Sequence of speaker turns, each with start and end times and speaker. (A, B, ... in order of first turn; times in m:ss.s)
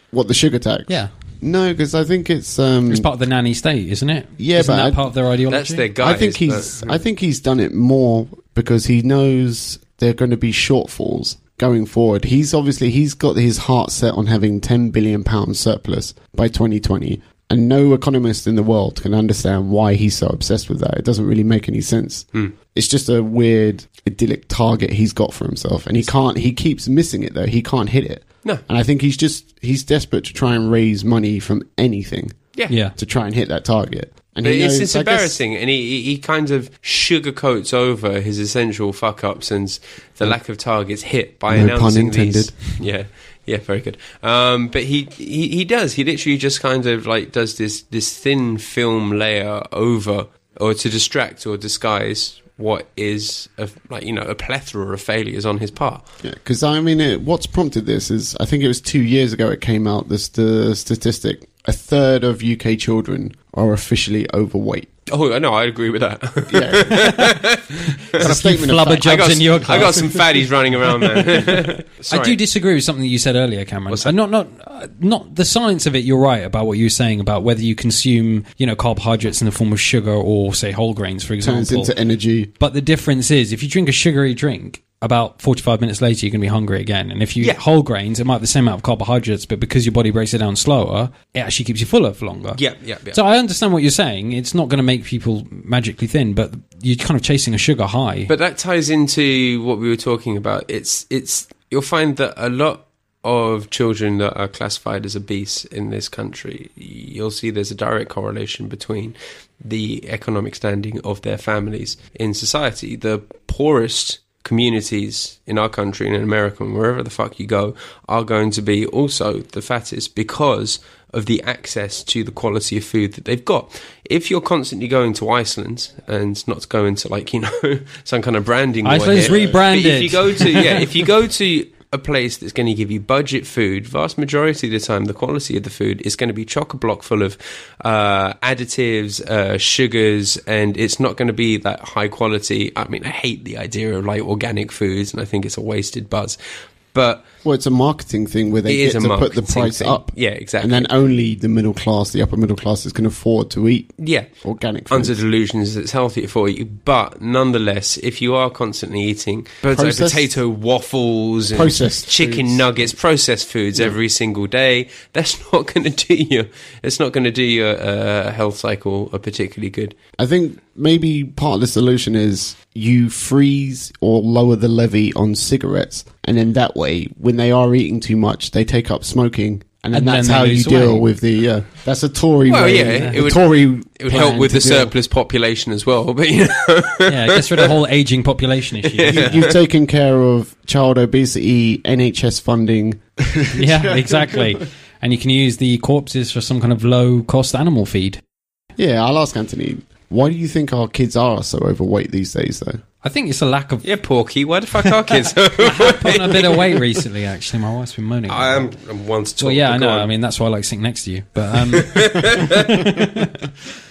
0:00.1-0:03.1 A
0:02.9-0:05.9 B
0:04.4-0:05.1 A
0:05.5-0:07.0 C
0:06.0-0:35.4 A
0:32.7-0:33.0 B
0:34.4-0:56.0 C
0:41.5-0:42.6 A
0:56.2-1:04.9 A
1:05.1-1:08.2 C
1:06.5-1:07.1 A
1:06.9-1:07.3 B
1:08.1-1:10.1 B
1:08.2-1:10.2 A
1:09.0-1:12.4 C
1:12.1-1:21.9 B
1:13.9-1:14.1 C
1:21.4-1:22.5 A
1:22.6-1:32.6 B
1:32.6-1:33.2 C
1:33.1-1:38.3 B
1:38.3-2:26.4 C
2:08.8-2:10.8 B
2:26.9-2:27.2 C
2:27.4-2:35.2 A
2:28.7-2:30.9 C
2:34.0-2:50.0 C
2:39.7-2:40.3 A
2:41.5-2:43.0 A
2:50.2-3:04.9 A
2:59.9-3:01.1 B
3:02.5-3:07.7 C
3:07.1-3:09.4 B
3:08.8-3:09.6 C
3:09.1-3:14.6 A
3:13.6-3:18.2 B
3:18.8-3:22.8 A
3:23.0-3:23.9 B
3:23.8-3:27.0 C
3:25.0-3:28.7 B
3:28.3-3:30.1 C
3:29.4-3:33.3 B
3:31.7-3:32.9 C